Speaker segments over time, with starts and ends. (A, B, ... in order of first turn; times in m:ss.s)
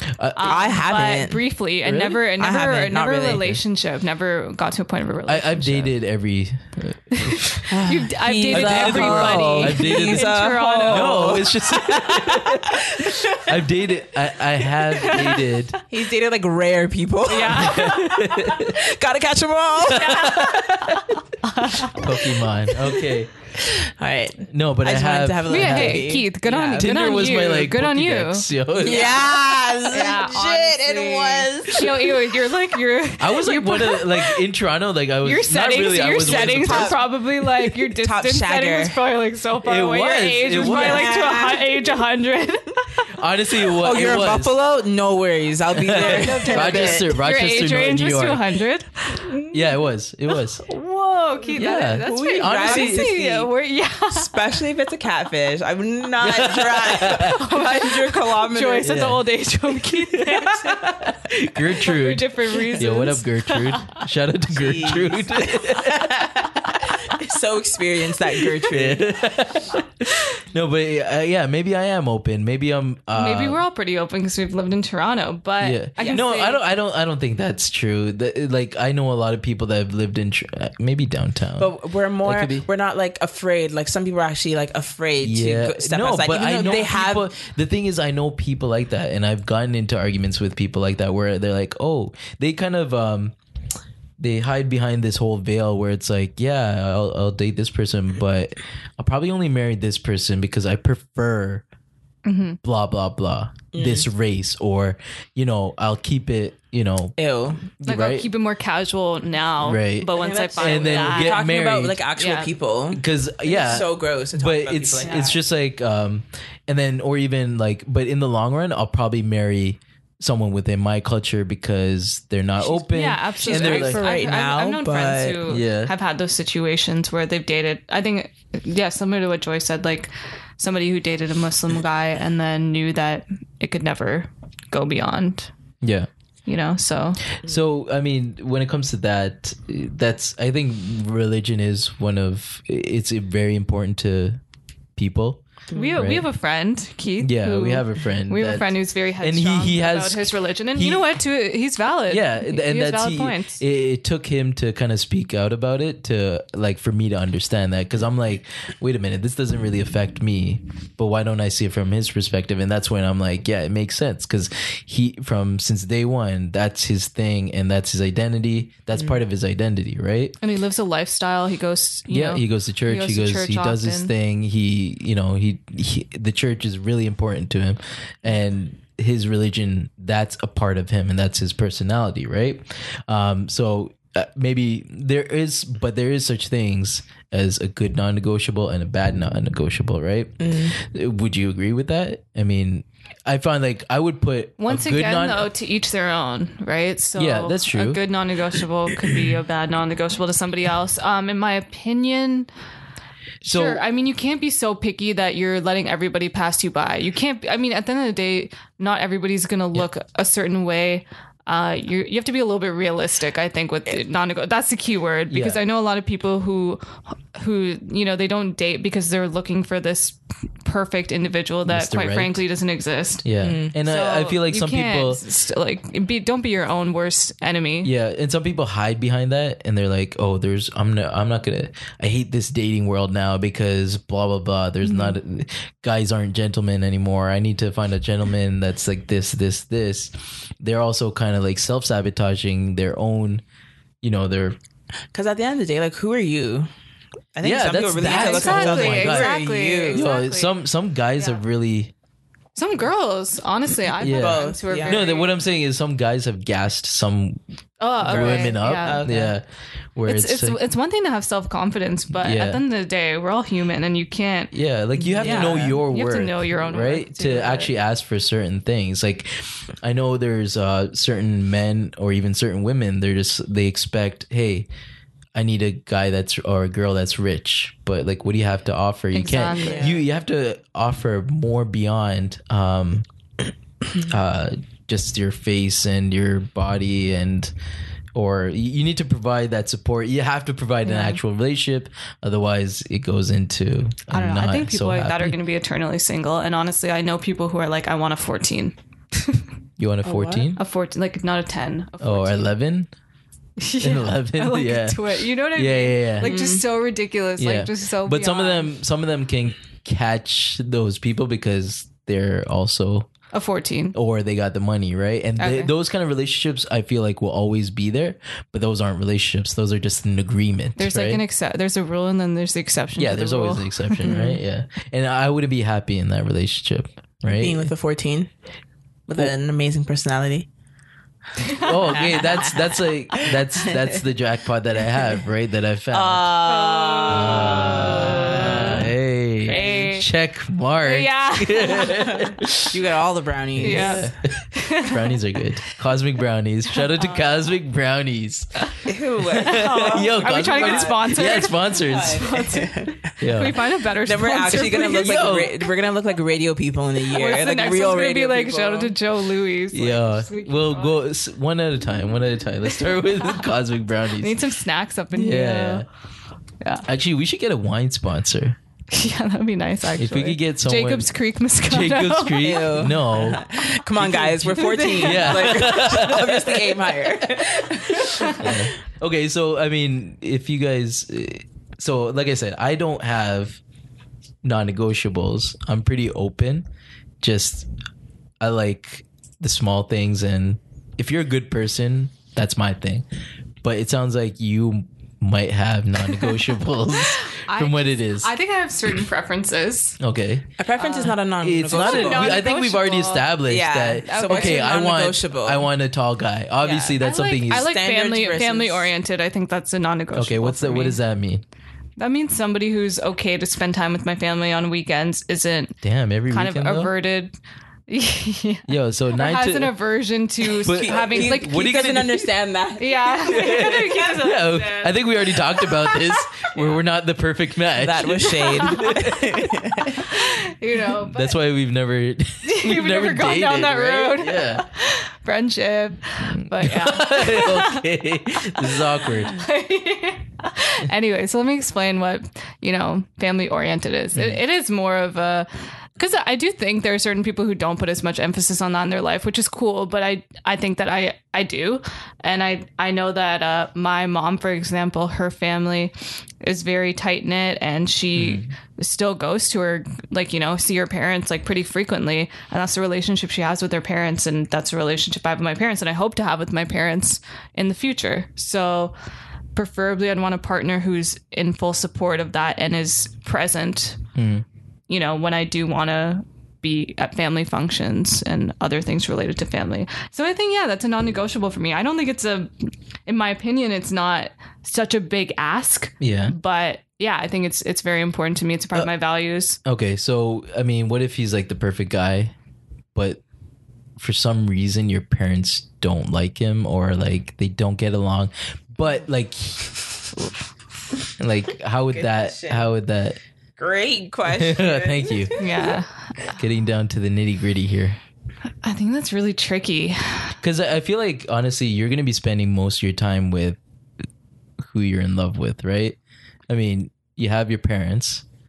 0:00.2-0:00.6 A
0:00.4-0:05.9 B
0:00.4-0:01.5 C
0:01.8-0:02.2 A
0:02.3-0:03.6 C
0:05.3-0:07.6 A
0:07.1-0:11.5 B
0:07.7-0:13.7 C
0:08.5-0:15.8 A
0:15.0-0:15.5 B
0:15.9-0:21.0 C
0:17.3-0:18.3 B
0:17.5-0:18.8 A
0:19.8-0:21.2 A
0:20.0-0:22.1 B
0:21.7-0:23.3 A
0:22.7-0:27.2 C
0:24.5-0:26.1 A
0:25.5-0:29.3 B
0:26.8-0:29.3 A
0:28.8-0:32.3 C
0:29.9-0:34.4 B
0:33.2-0:37.0 A
0:35.2-0:43.1 B
0:36.2-0:37.0 C
0:37.7-0:39.0 C
0:39.6-0:41.2 A
0:40.5-0:42.0 C
0:43.2-0:44.6 A
0:43.7-0:47.2 C
0:45.8-0:48.4 A
0:45.9-0:49.5 B
0:49.5-0:50.6 A
0:50.6-0:54.4 B
0:51.5-0:53.1 A
0:51.6-0:53.5 C
0:54.1-0:59.1 C
0:56.2-0:57.4 A
0:56.9-1:04.0 B
0:58.8-0:59.2 A
1:00.3-1:07.0 A
1:04.5-1:09.3 C
1:08.4-1:13.6 A
1:13.2-1:16.6 B
1:15.6-1:21.7 A
1:16.0-1:16.2 C
1:21.6-1:27.3 C
1:22.2-1:22.7 A
1:25.2-1:33.4 A
1:34.2-1:41.6 A
1:42.2-1:42.6 B
1:42.6-1:48.3 A
1:43.7-1:44.1 C
1:47.2-1:47.7 C
1:47.9-1:51.5 B
1:49.6-1:52.0 A
1:50.1-1:55.4 C
1:52.2-1:52.5 B
1:52.9-2:04.0 A
1:55.0-1:55.3 B
2:02.6-2:15.5 B
2:03.4-2:05.5 C
2:05.5-2:05.9 A
2:15.8-2:16.1 A
2:16.5-2:17.3 B
2:17.3-2:24.4 A
2:25.0-2:26.3 A
2:25.7-2:26.0 C
2:25.7-2:33.6 B
2:27.2-2:28.7 A
2:29.2-2:31.0 A
2:32.1-2:50.4 A
2:50.4-2:54.1 B
2:52.1-3:15.4 A
3:10.4-3:10.8 C
3:14.6-3:22.5 B
3:17.2-3:18.0 A
3:23.4-3:23.8 A
3:23.4-3:43.3 B
3:35.3-3:35.6 A
3:41.7-3:42.4 A
3:43.2-3:45.2 A
3:43.4-3:43.8 C
3:43.8-3:47.9 B
3:47.8-4:03.4 A
3:54.8-3:55.2 B
4:04.0-4:04.6 A
4:05.1-4:06.7 C
4:07.4-4:10.1 C
4:07.4-4:09.4 A
4:08.0-4:10.5 B
4:09.9-4:11.9 A
4:12.6-4:15.3 B
4:14.0-4:15.0 C
4:14.0-4:17.4 A
4:17.8-4:19.1 B
4:18.0-4:19.4 A
4:18.0-4:19.3 C
4:20.0-4:20.6 A
4:20.1-4:24.5 B
4:22.1-4:22.6 A
4:24.5-4:34.7 A
4:25.0-4:25.8 C
4:25.2-4:27.7 B
4:35.4-4:43.0 A
4:39.1-4:39.9 B
4:39.6-4:40.0 C
4:44.0-4:47.5 A
4:48.2-4:55.4 A
4:50.8-4:51.2 B
4:54.1-4:59.4 B
4:59.8-5:00.6 A
5:00.0-5:00.5 C
5:00.6-5:02.5 B
5:02.0-5:02.9 A
5:03.6-5:08.7 B
5:03.8-5:06.3 A
5:06.2-5:06.6 C
5:07.4-5:13.1 A
5:13.3-5:14.0 B
5:13.9-5:21.2 A
5:15.4-5:15.7 B
5:20.8-5:24.3 B
5:23.0-5:27.7 A
5:24.1-5:24.4 C
5:27.3-5:28.3 C
5:29.1-5:30.5 C
5:31.4-5:36.5 A
5:31.9-5:34.0 C
5:35.9-5:38.9 C
5:36.5-5:38.8 B
5:37.1-5:42.8 A
5:39.5-5:40.0 C
5:39.5-5:40.1 B
5:40.8-5:42.3 B
5:42.7-5:44.1 C
5:43.6-5:52.3 A
5:43.6-5:45.2 B
5:46.7-5:47.3 B
5:48.6-5:55.5 B
5:48.8-5:53.1 C
5:53.2-5:53.6 A
5:54.0-5:59.0 C
5:54.5-5:55.6 A
5:57.1-6:01.0 B
5:59.7-6:04.4 A
6:04.2-6:05.8 B
6:05.1-6:05.9 A
6:06.6-6:06.9 B
6:06.8-6:08.6 A
6:08.9-6:12.9 B
6:10.0-6:11.1 A
6:11.6-6:13.4 A
6:12.4-6:18.6 C
6:14.0-6:23.6 A
6:14.4-6:15.8 B
6:17.9-6:18.6 B
6:24.4-6:26.7 A
6:27.2-6:27.7 A
6:28.4-6:33.0 A
6:33.6-6:38.3 A
6:36.1-6:40.0 B
6:40.0-6:40.5 A
6:40.6-6:42.5 C
6:40.8-6:43.3 B
6:41.4-6:47.7 A
6:43.5-6:45.7 C
6:44.0-6:44.8 B
6:46.6-6:46.9 C
6:46.8-6:51.0 B
6:47.5-6:48.9 C
6:50.1-6:51.4 A
6:52.0-6:57.3 B
6:55.8-6:56.9 A
6:57.9-7:02.0 B
6:58.7-6:59.8 A
7:00.5-7:02.2 A
7:00.7-7:04.1 C
7:02.8-7:05.0 B
7:03.3-7:10.1 A
7:05.6-7:06.2 B
7:07.8-7:10.0 C
7:08.6-7:09.1 B
7:10.0-7:11.4 B
7:11.1-7:14.6 A
7:12.5-7:17.9 B
7:16.3-7:19.4 A
7:18.6-7:49.0 B
7:38.2-7:38.5 A
7:49.6-7:54.0 B
7:54.2-7:54.4 A
7:54.9-8:09.6 B
8:06.0-8:06.3 A
8:09.6-8:12.3 A
8:13.0-8:13.2 A
8:14.0-8:20.4 A
8:21.1-8:23.2 A
8:21.9-8:22.7 C
8:23.6-8:25.8 C
8:24.3-8:25.4 A
8:25.4-8:26.3 B
8:26.3-8:28.0 A
8:28.6-8:30.4 B
8:30.4-8:33.6 A
8:34.6-8:36.0 A
8:36.5-8:38.2 A